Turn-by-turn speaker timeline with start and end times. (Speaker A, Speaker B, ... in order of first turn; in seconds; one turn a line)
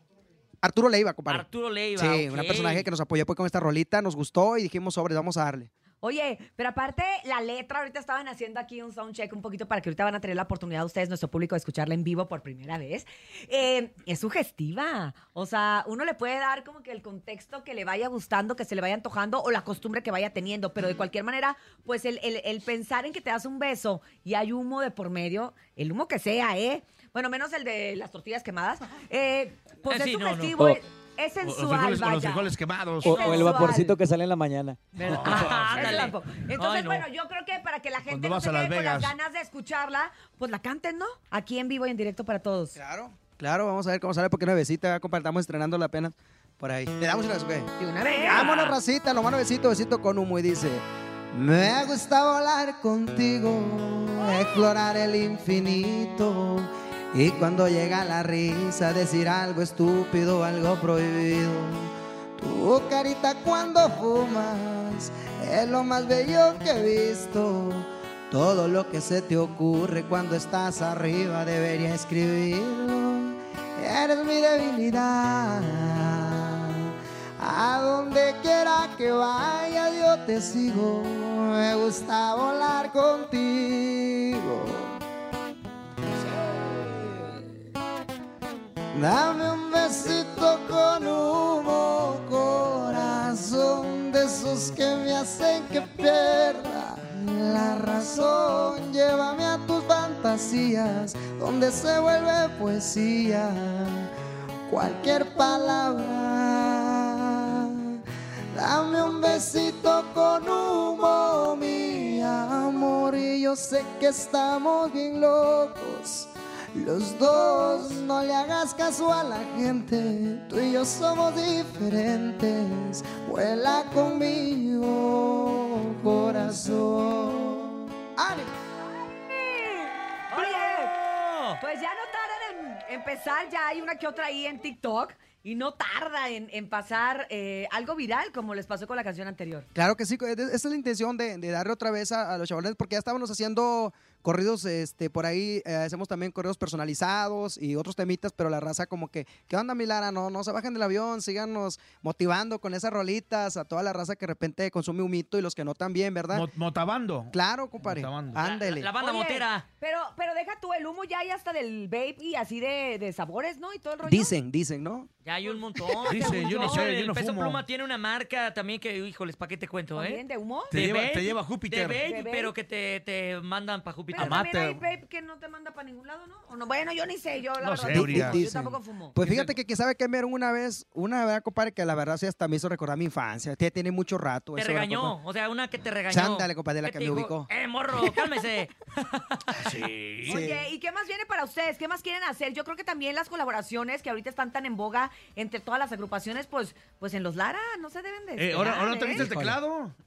Speaker A: 0.6-5.7
Speaker B: 1.3-2.9
Speaker C: 6.0-34.0
Speaker B: 29.9-30.6
Speaker D: 31.4-33.1
Speaker E: 33.0-35.5
Speaker C: 35.0-42.8
Speaker D: 35.1-36.0
Speaker B: 35.2-37.1
Speaker D: 38.0-39.1
Speaker A: 42.8-85.0
Speaker C: 47.8-48.8
Speaker E: 86.3-87.4
Speaker A: 88.9-104.1
Speaker A: 104.7-128.5
Speaker C: 128.9-130.9
Speaker B: 130.3-131.6
Speaker C: 131.6-139.7
Speaker A: 139.8-156.5
Speaker D: 156.3-158.4
Speaker A: 157.3-158.9
Speaker B: 158.3-159.7
Speaker C: 159.0-164.3
Speaker A: 164.0-165.1
Speaker B: 165.2-174.4
Speaker C: 165.5-166.9
Speaker D: 166.1-167.6
Speaker C: 169.9-170.7
Speaker D: 170.7-172.0
Speaker C: 172.1-172.5
Speaker C: 174.1-179.2
Speaker D: 174.2-174.8
Speaker D: 177.6-178.4
Speaker A: 177.9-185.2
Speaker D: 179.2-179.5
Speaker B: 184.6-189.7
Speaker A: 186.1-187.5
Speaker D: 189.6-190.4
Speaker C: 190.3-199.3
Speaker A: 190.3-190.7
Speaker D: 198.4-200.0
Speaker A: 199.1-199.6